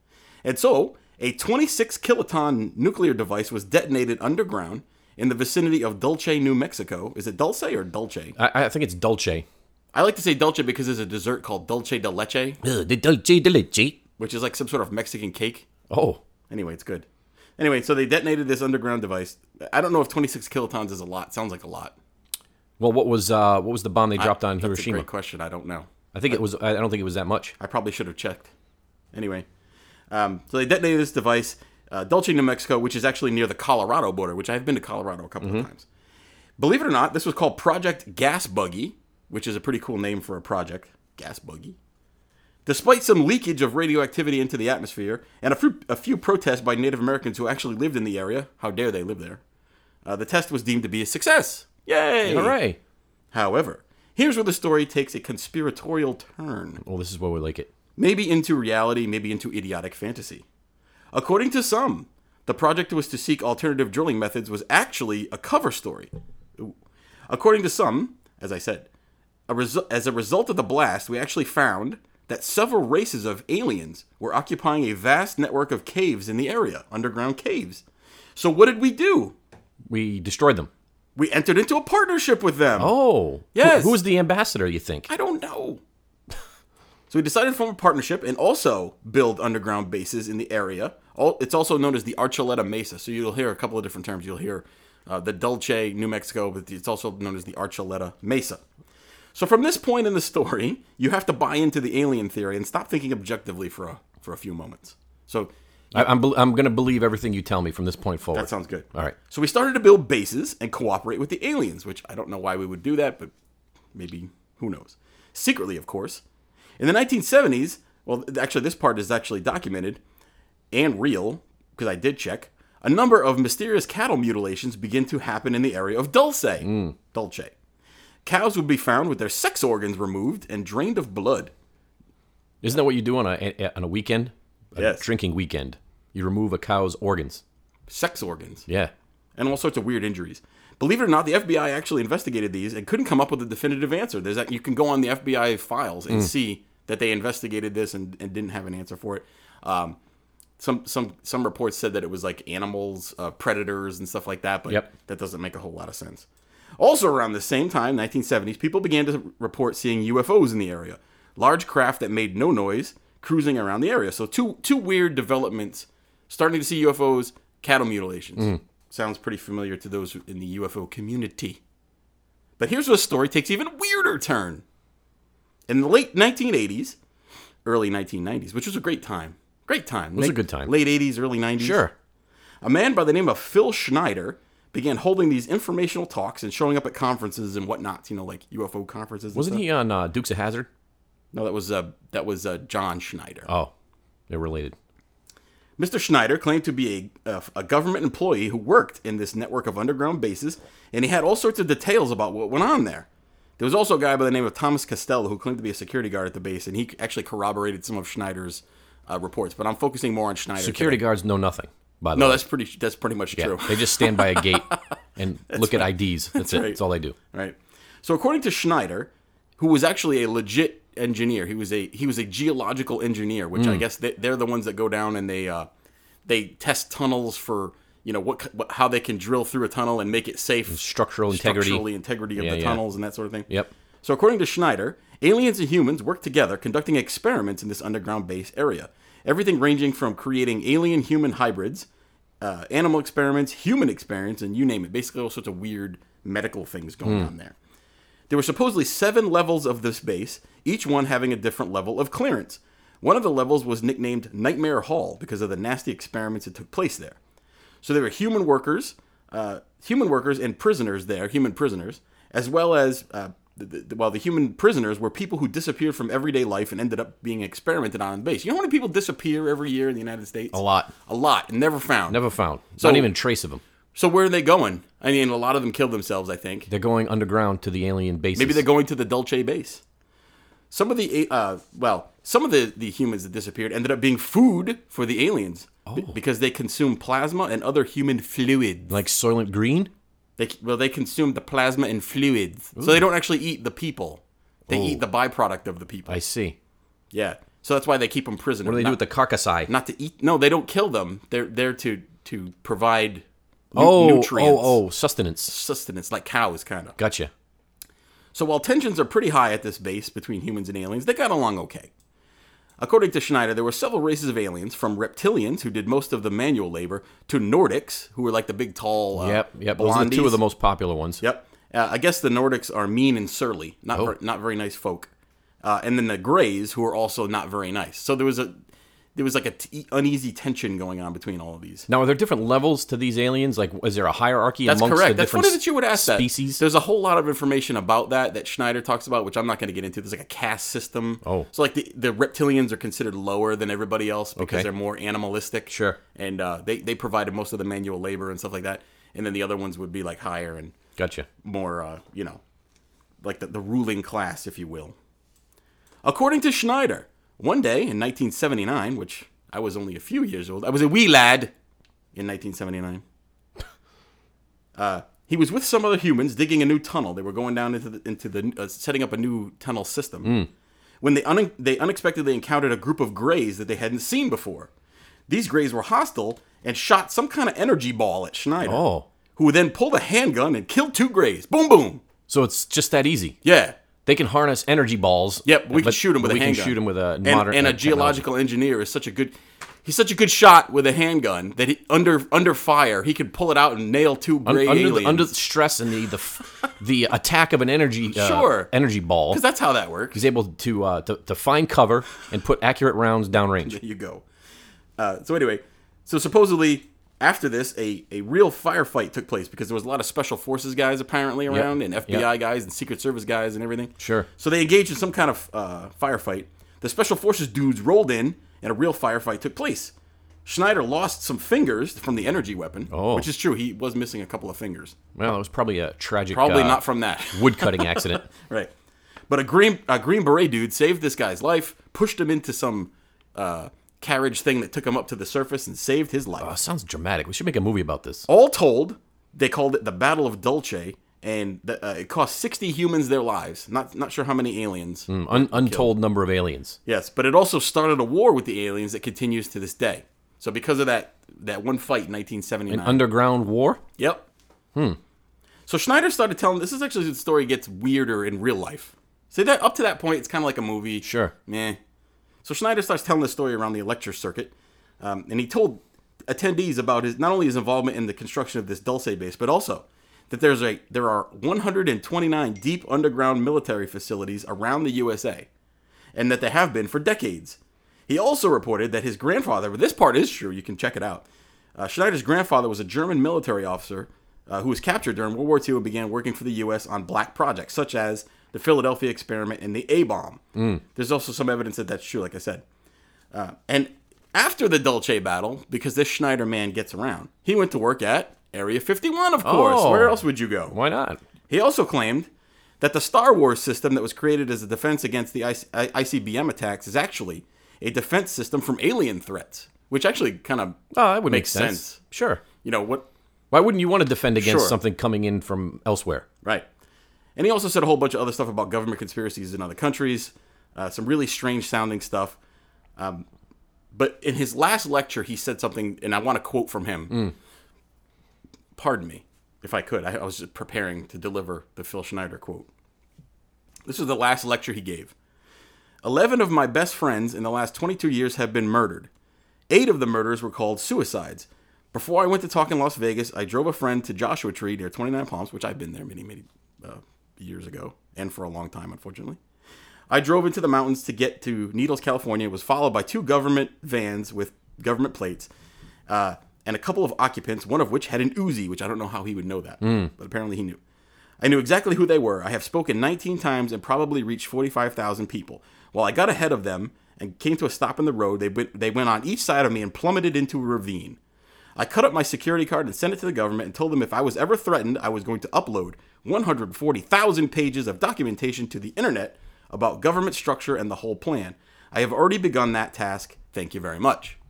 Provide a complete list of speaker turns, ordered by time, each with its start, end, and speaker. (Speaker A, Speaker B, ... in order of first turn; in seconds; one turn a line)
Speaker A: 0.4-8.3
Speaker B: 8.4-9.5
Speaker A: 9.9-12.6
Speaker B: 12.6-14.0
Speaker A: 14.2-15.7
Speaker B: 15.9-16.2
Speaker A: 16.5-17.1
Speaker A: 17.6-21.9
Speaker B: 22.8-25.1
Speaker A: 24.2-26.4
Speaker B: 26.1-27.5
Speaker A: 27.6-28.5
Speaker A: 29.1-29.5
Speaker A: 30.1-35.9
Speaker B: 35.4-35.7
Speaker A: 36.6-41.8
Speaker A: 42.7-49.4
Speaker A: 50.0-52.6
Speaker B: 52.3-52.8
Speaker A: 53.3-56.8
Speaker B: 56.8-57.7
Speaker A: 58.0-60.5
Speaker A: 61.1-66.7
Speaker A: 67.3-68.9
Speaker A: 69.5-77.8
Speaker A: 78.4-79.3
Speaker B: 79.9-80.7
Speaker A: 81.2-82.9
Speaker B: 82.8-85.1
Speaker A: 83.5-84.0
Speaker A: 85.1-85.8
Speaker A: 87.1-98.6
Speaker A: 99.3-106.1
Speaker B: 105.9-109.2
Speaker A: 108.3-113.3
Speaker A: 113.9-116.2
Speaker A: 116.8-120.0
Speaker A: 120.7-127.5
Speaker B: 126.6-127.0
Speaker A: 128.2-131.5
Speaker B: 132.6-137.4
Speaker A: 134.8-135.1
Speaker A: 137.9-138.7
Speaker B: 138.7-138.9
Speaker A: 139.4-150.0
Speaker A: 150.6-156.3
Speaker A: 156.8-171.6
Speaker A: 172.6-174.6
Speaker A: 175.7-177.0
Speaker A: 177.7-181.8
Speaker B: 180.2-180.7
Speaker B: 181.6-181.9
Speaker A: 182.6-189.6
Speaker B: 189.3-190.7
Speaker A: 191.3-193.5
Speaker B: 194.3-194.8
Speaker A: 195.8-203.1
Speaker A: 203.6-211.0
Speaker B: 210.6-212.4
Speaker A: 212.2-214.8
Speaker B: 213.3-217.2
Speaker A: 215.5-216.8
Speaker A: 217.3-225.7
Speaker B: 223.6-223.8
Speaker A: 226.3-233.5
Speaker B: 230.7-231.8
Speaker B: 232.4-232.8
Speaker A: 234.0-241.9
Speaker A: 242.4-247.6
Speaker B: 247.1-247.3
Speaker A: 248.3-257.2
Speaker A: 257.8-272.2
Speaker B: 270.5-270.9
Speaker B: 272.1-273.6
Speaker A: 272.8-273.1
Speaker A: 273.9-276.7
Speaker B: 276.7-278.6
Speaker A: 278.4-279.8
Speaker A: 280.7-288.9
Speaker B: 285.9-286.1
Speaker B: 288.9-289.9
Speaker A: 290.4-296.2
Speaker B: 294.7-295.0
Speaker B: 296.1-296.6
Speaker A: 297.1-299.0
Speaker B: 298.6-299.7
Speaker A: 299.7-304.8
Speaker B: 303.7-305.6
Speaker A: 305.5-307.0
Speaker B: 307.0-307.3
Speaker A: 308.3-311.9
Speaker A: 312.8-320.4
Speaker B: 319.2-321.2
Speaker A: 321.2-325.1
Speaker A: 325.6-328.6
Speaker A: 329.1-331.9
Speaker B: 331.9-336.6
Speaker A: 334.7-350.7
Speaker B: 341.2-341.5
Speaker B: 344.4-344.7
Speaker B: 345.7-346.0
Speaker B: 351.0-351.3
Speaker A: 351.4-352.4
Speaker A: 353.2-354.9
Speaker A: 356.0-361.5
Speaker A: 362.1-363.0
Speaker A: 364.8-370.3
Speaker B: 370.2-370.5
Speaker A: 371.0-374.7
Speaker A: 375.3-378.8
Speaker B: 378.6-379.1
Speaker A: 379.4-382.0
Speaker B: 382.3-383.4
Speaker A: 383.4-383.8
Speaker B: 384.1-388.3
Speaker A: 385.4-395.3
Speaker B: 394.5-399.4
Speaker A: 398.1-398.7
Speaker A: 399.3-400.2
Speaker B: 400.1-403.8
Speaker A: 403.6-404.2
Speaker A: 405.0-419.9
Speaker B: 411.5-412.3
Speaker B: 414.0-414.3
Speaker A: 420.5-425.0
Speaker B: 422.9-423.3
Speaker B: 425.2-428.3
Speaker A: 426.3-428.7
Speaker A: 429.3-436.5
Speaker B: 436.4-438.3
Speaker A: 438.3-445.9
Speaker B: 445.1-446.8
Speaker A: 446.9-453.1
Speaker B: 452.7-453.8
Speaker A: 454.0-454.2
Speaker A: 455.7-461.8
Speaker B: 461.0-461.3
Speaker A: 462.4-475.5
Speaker A: 476.1-481.2
Speaker A: 481.8-490.4
Speaker B: 490.6-490.8
Speaker A: 490.9-492.6
Speaker A: 493.3-500.8
Speaker B: 499.4-501.2
Speaker A: 501.5-502.3
Speaker A: 502.8-512.0
Speaker B: 510.9-512.4
Speaker A: 512.6-513.1
Speaker B: 513.5-516.3
Speaker A: 514.4-514.8
Speaker A: 517.4-522.4
Speaker A: 523.0-523.3
Speaker A: 523.9-527.1
Speaker A: 528.8-532.7
Speaker A: 533.9-535.1
Speaker A: 536.0-539.1
Speaker A: 539.7-549.4
Speaker A: 550.1-555.5
Speaker A: 556.1-560.8
Speaker B: 559.8-560.1
Speaker A: 561.4-571.2
Speaker A: 571.8-584.4